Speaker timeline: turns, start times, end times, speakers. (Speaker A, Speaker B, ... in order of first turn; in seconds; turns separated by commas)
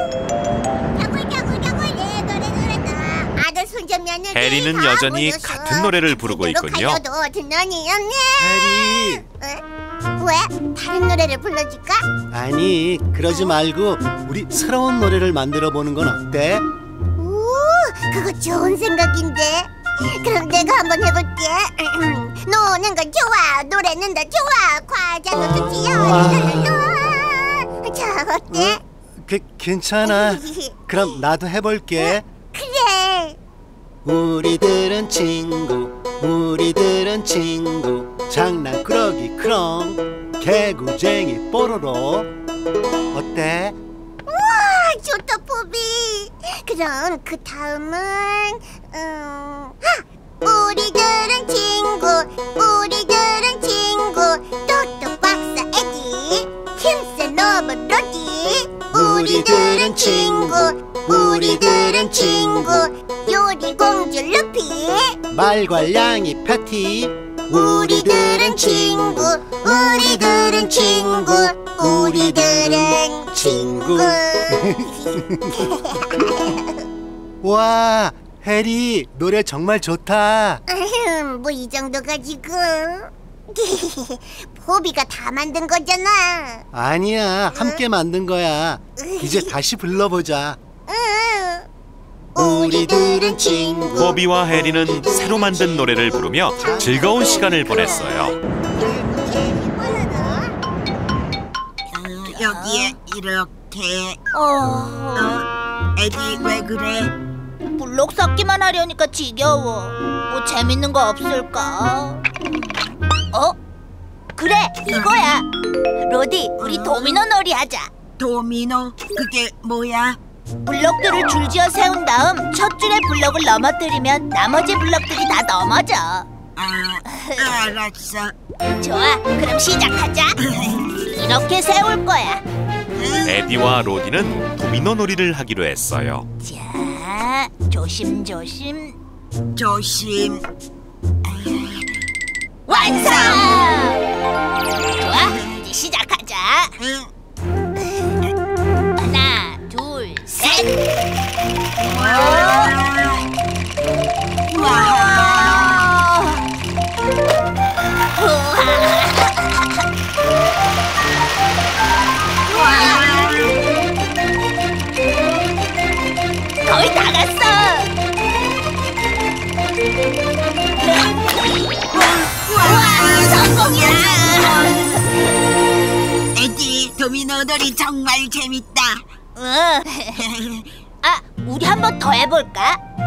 Speaker A: 0.9-9.6, Speaker B: 4.3-7.0, Speaker C: 8.4-9.2, Speaker A: 10.2-12.0, Speaker C: 12.3-16.6, Speaker A: 17.2-28.8, Speaker C: 25.4-26.7, Speaker C: 28.5-32.2, Speaker A: 30.0-31.1, Speaker A: 32.0-33.4, Speaker C: 34.0-42.3, Speaker C: 43.1-43.8, Speaker A: 44.3-65.2, Speaker C: 58.9-62.7, Speaker C: 65.3-75.7, Speaker A: 67.5-76.8, Speaker C: 77.4-80.6, Speaker A: 80.7-86.7, Speaker C: 86.7-90.6, Speaker A: 87.5-87.8, Speaker A: 89.0-89.5, Speaker A: 90.9-91.7, Speaker A: 92.3-94.2, Speaker C: 92.3-95.6, Speaker B: 94.0-98.3, Speaker A: 96.6-100.5, Speaker C: 96.6-97.3, Speaker D: 101.9-104.2, Speaker E: 102.2-103.0, Speaker E: 104.3-105.3, Speaker D: 105.1-107.1, Speaker E: 107.8-112.2, Speaker E: 114.4-115.4, Speaker E: 116.0-117.9, Speaker D: 116.6-117.2, Speaker D: 118.2-120.2, Speaker E: 120.7-126.2, Speaker D: 126.6-128.3, Speaker E: 127.1-127.5, Speaker E: 128.8-130.3, Speaker D: 130.4-130.9, Speaker E: 131.1-132.4, Speaker D: 133.0-133.4, Speaker B: 133.2-136.3, Speaker E: 136.4-138.9, Speaker D: 139.6-140.4, Speaker D: 141.2-141.8, Speaker D: 142.7-143.7, Speaker E: 142.7-144.0, Speaker E: 145.0-146.7, Speaker D: 146.8-147.1, Speaker E: 149.0-150.7, Speaker D: 151.8-153.3, Speaker E: 152.0-152.7, Speaker D: 154.5-155.9, Speaker E: 155.6-156.4, Speaker E: 158.1-159.7, Speaker D: 162.5-163.6, Speaker E: 162.6-163.0, Speaker E: 166.7-167.9, Speaker D: 171.9-175.0, Speaker E: 172.5-175.1, Speaker D: 176.3-179.0, Speaker E: 179.3-180.2, Speaker D: 180.1-180.7, Speaker E: 181.0-182.8